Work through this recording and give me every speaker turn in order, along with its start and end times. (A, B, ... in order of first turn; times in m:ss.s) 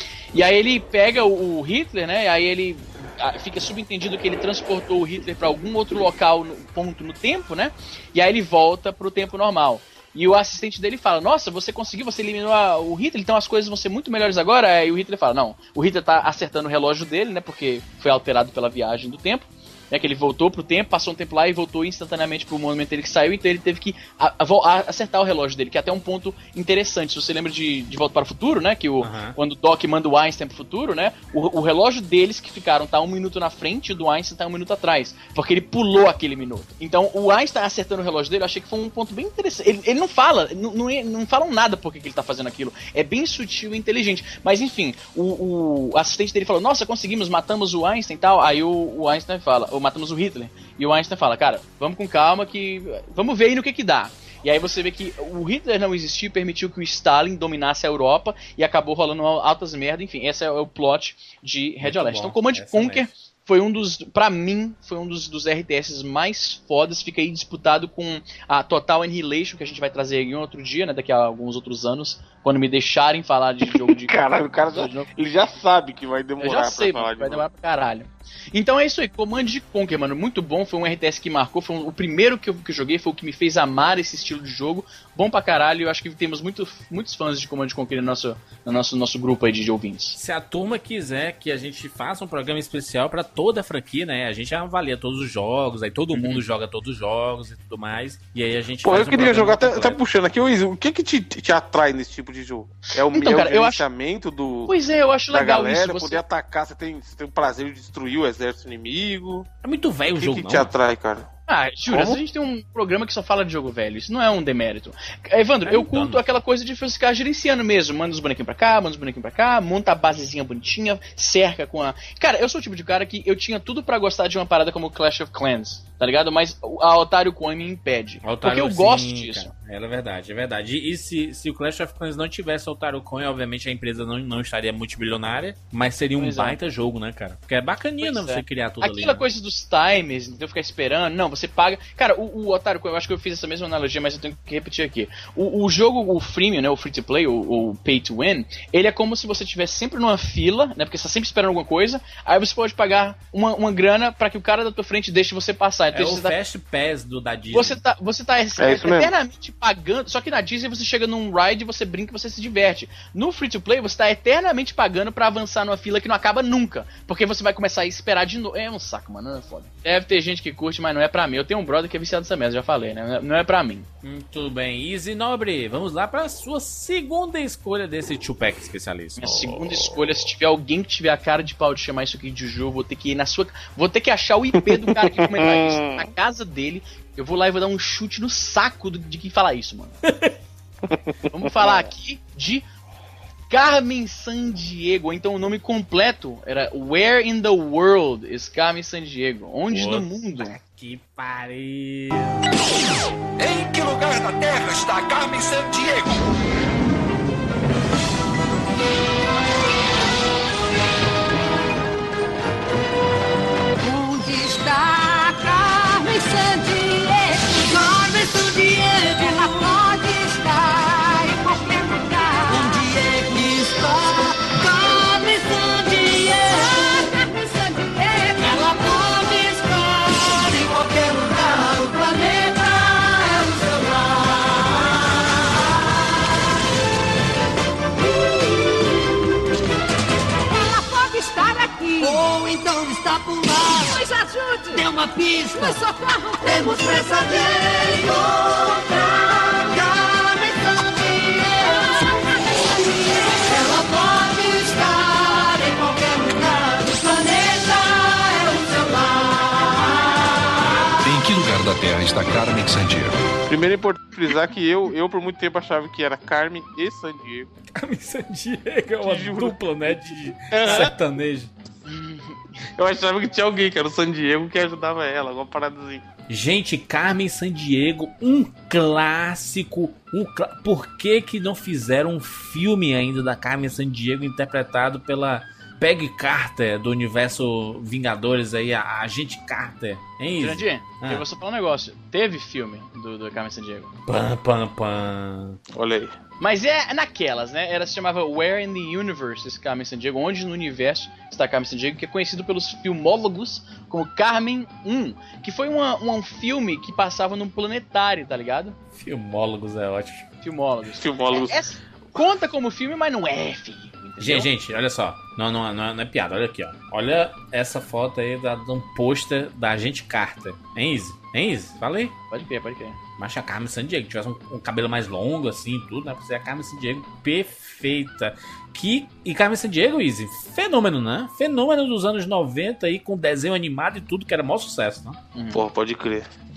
0:00.3-1:14.2 A
0:29.0-0:29.4 B
1:01.8-1:03.1 B
1:13.7-1:17.4 C
1:14.7-1:15.1 A
1:16.4-1:30.2 A
1:30.2-1:40.0 B
1:36.1-1:36.4 A
1:38.8-1:44.8 C
1:43.1-1:43.8 A
1:44.7-1:46.2 A
1:45.3-1:49.5 C
1:49.6-1:50.7 B
1:50.2-1:51.3 C
1:51.5-2:09.5 A
1:51.9-1:52.2 C
1:55.7-1:56.3 B
2:08.2-2:19.2 B
2:16.2-2:16.6 A
2:18.0-2:36.4 A
2:35.9-2:37.8 B
2:37.5-2:53.9 A
2:38.6-2:39.2 C
2:54.0-3:00.3 B
2:59.2-3:10.0 A
3:04.6-3:06.1 C
3:10.1-3:10.3 B
3:10.9-3:11.9 C
3:11.3-3:12.6 A
3:13.5-3:20.6 A
3:19.7-3:22.4 B
3:23.4-3:26.4 D
3:33.8-3:55.4 E
3:58.0-3:58.8 E
4:00.5-4:20.3 E
4:21.0-4:23.2 D
4:23.5-4:27.5 C
4:27.7-4:31.5 B
4:29.0-4:30.9 C
4:31.9-4:32.4 A
4:32.8-4:36.0 C
4:36.3-4:51.2 B
4:50.4-4:53.9 A
4:54.1-4:55.6 B
4:55.8-4:56.2 C
4:56.4-5:08.8 A
5:09.0-5:10.3 B
5:10.4-5:14.5 A
5:11.0-5:11.6 C
5:14.2-5:22.2 B
5:22.3-5:23.0 A
5:23.2-5:35.2 B
5:35.4-5:35.6 A
5:35.5-5:36.3 C